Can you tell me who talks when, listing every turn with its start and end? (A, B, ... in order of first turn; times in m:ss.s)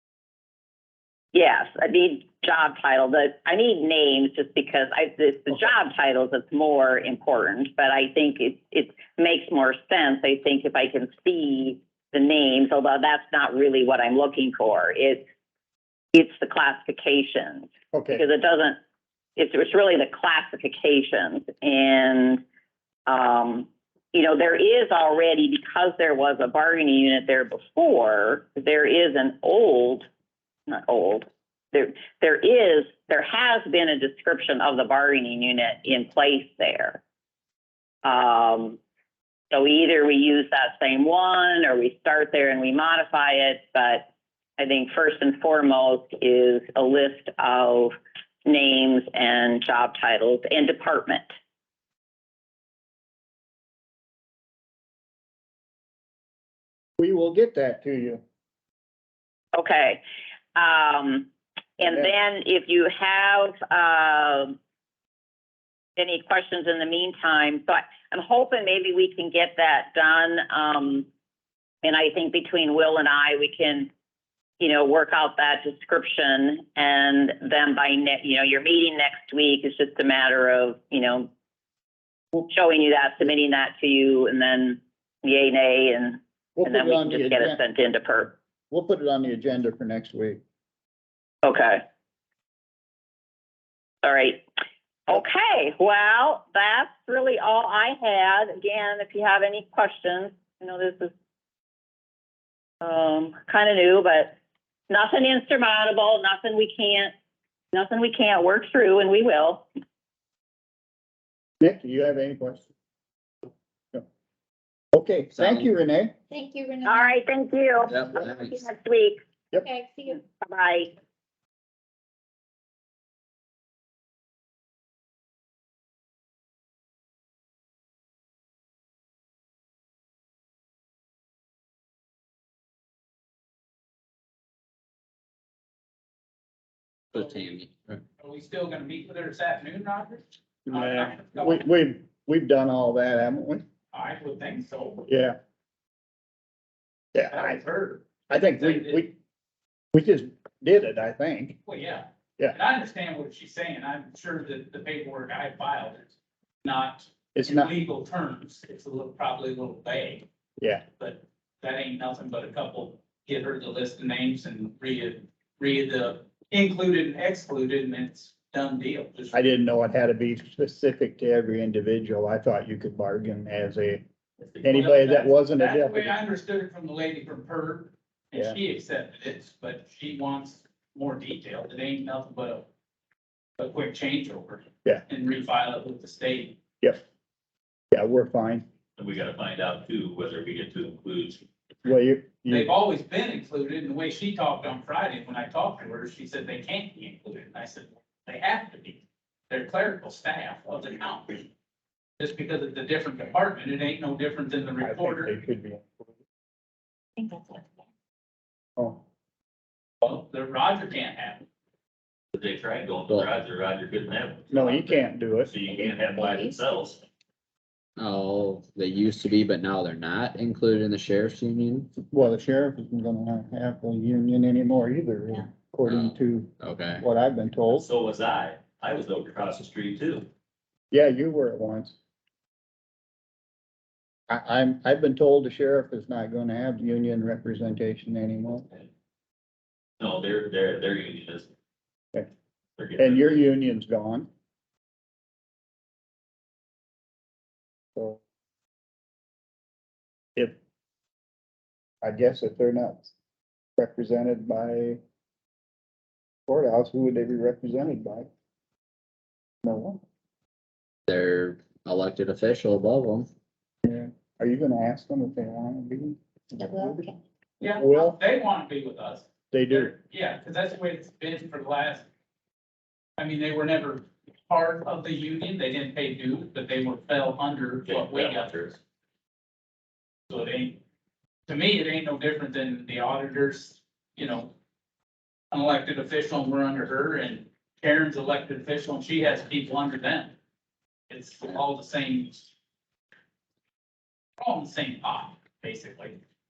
0:01.3-0:15.2 A
0:16.1-0:18.8 A
0:17.9-0:18.2 B
0:19.4-0:22.4 A
0:23.1-0:30.1 A
0:30.7-0:37.0 A
0:38.0-0:38.8 A
0:39.5-0:44.1 A
0:44.6-0:47.9 A
0:48.5-0:51.3 A
0:57.0-0:58.2 B
0:59.6-1:00.0 A
1:00.6-1:04.6 A
1:06.0-1:11.1 A
1:11.8-1:13.9 A
1:14.6-1:21.3 A
1:22.5-1:28.3 A
1:26.6-1:27.6 B
1:28.7-1:30.4 B
1:31.4-1:31.8 A
1:34.0-1:34.4 A
1:35.1-1:41.1 A
1:42.8-1:44.3 A
1:44.9-1:47.1 A
1:47.7-1:49.6 A
1:51.6-1:52.7 B
1:54.9-1:56.2 B
1:55.4-1:55.7 C
1:56.3-1:57.2 D
1:56.9-1:59.2 A
1:57.9-1:58.6 C
1:59.6-2:00.2 D
2:00.2-2:00.9 A
2:17.1-2:18.0 C
2:18.2-2:21.6 E
2:20.7-2:23.6 B
2:23.9-2:25.0 E
2:25.1-2:25.4 B
2:27.2-2:27.6 B
2:27.3-2:29.1 E
2:28.3-2:29.1 B
2:29.9-2:31.6 B
2:31.7-2:40.3 E
2:37.4-2:37.7 B
2:40.6-2:40.8 B
2:41.0-2:49.4 E
2:49.3-2:54.0 B
2:54.6-2:56.2 B
2:54.6-3:02.7 E
3:03.6-3:06.6 E
3:07.9-3:08.6 B
3:09.0-3:11.4 F
3:11.8-3:12.7 B
3:12.5-3:21.5 E
3:22.2-3:25.3 E
3:24.8-3:26.1 B
3:27.2-3:27.6 D
3:28.8-3:29.0 B
3:30.0-3:31.5 E
3:32.3-3:37.0 F
3:34.5-3:35.5 B
3:38.0-3:41.9 C
3:42.1-3:47.9 B
3:45.9-3:47.0 C
3:47.7-3:50.3 F
3:50.9-3:52.0 B
3:54.3-3:58.7 B
4:00.0-4:01.5 F
4:02.8-4:03.2 F
4:03.0-4:04.3 B
4:12.0-4:13.1 B
4:13.8-4:15.0 B
4:16.5-4:18.3 B
4:19.6-4:20.0 B
4:21.1-4:23.3 C
4:23.8-4:27.1 B
4:26.6-4:27.0 D
4:27.6-4:32.1 E
4:27.8-4:28.2 B
4:29.5-4:29.9 B
4:33.2-4:38.8 E
4:37.9-4:38.8 F
4:40.3-4:40.8 E
4:41.5-4:44.5 E
4:45.5-4:50.3 E
4:51.1-4:52.5 E
4:54.4-4:56.2 E